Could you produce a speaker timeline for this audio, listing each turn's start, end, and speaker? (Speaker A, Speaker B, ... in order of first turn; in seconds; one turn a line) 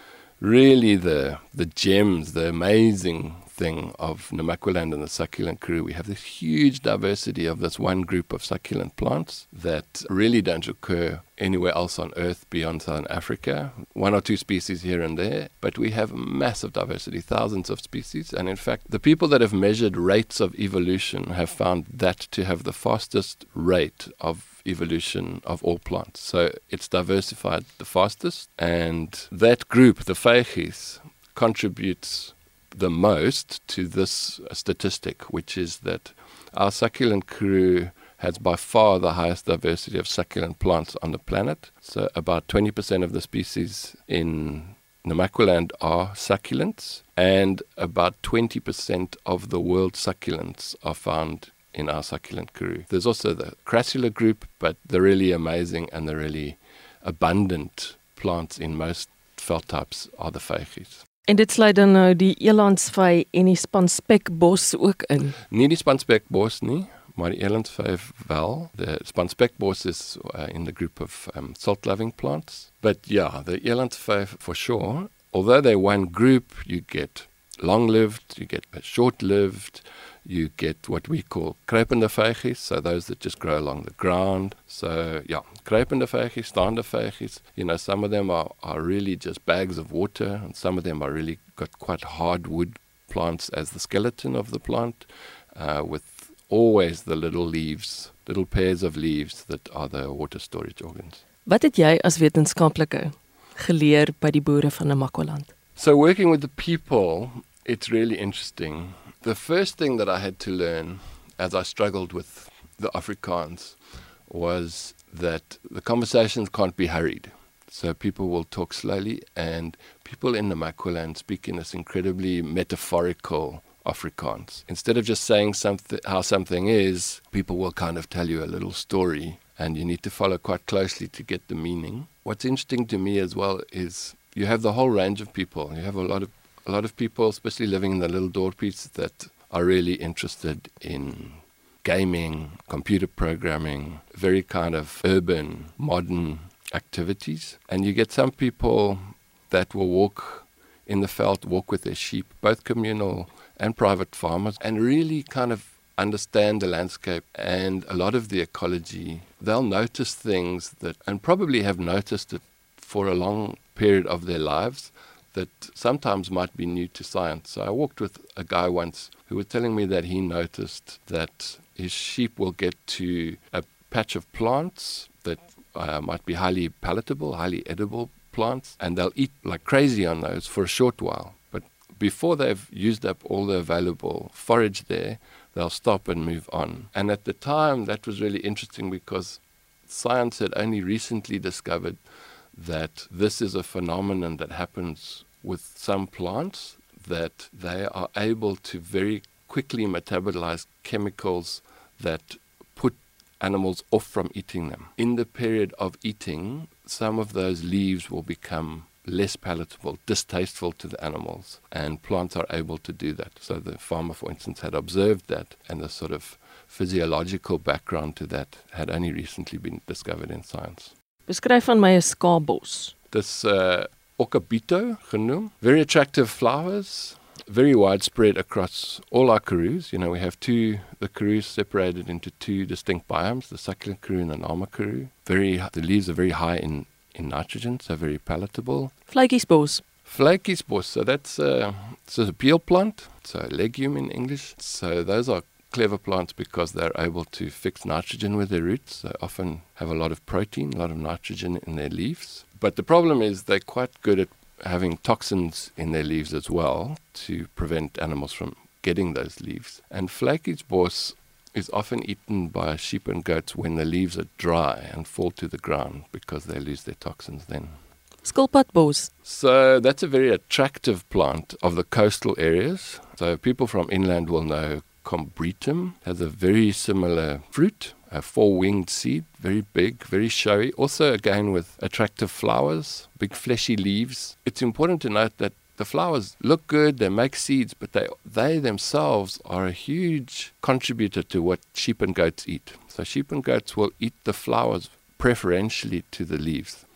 Speaker A: 0.4-61.0
Speaker B: 61.3-65.4
Speaker A: 65.5-101.2
Speaker B: 101.5-105.5
Speaker A: 105.8-192.0
Speaker A: 192.5-220.9
Speaker B: 221.3-222.9
Speaker A: 223.1-238.9
Speaker B: 239.1-239.8
Speaker A: 240.1-267.7
Speaker B: 268.2-269.1
Speaker A: 269.2-296.8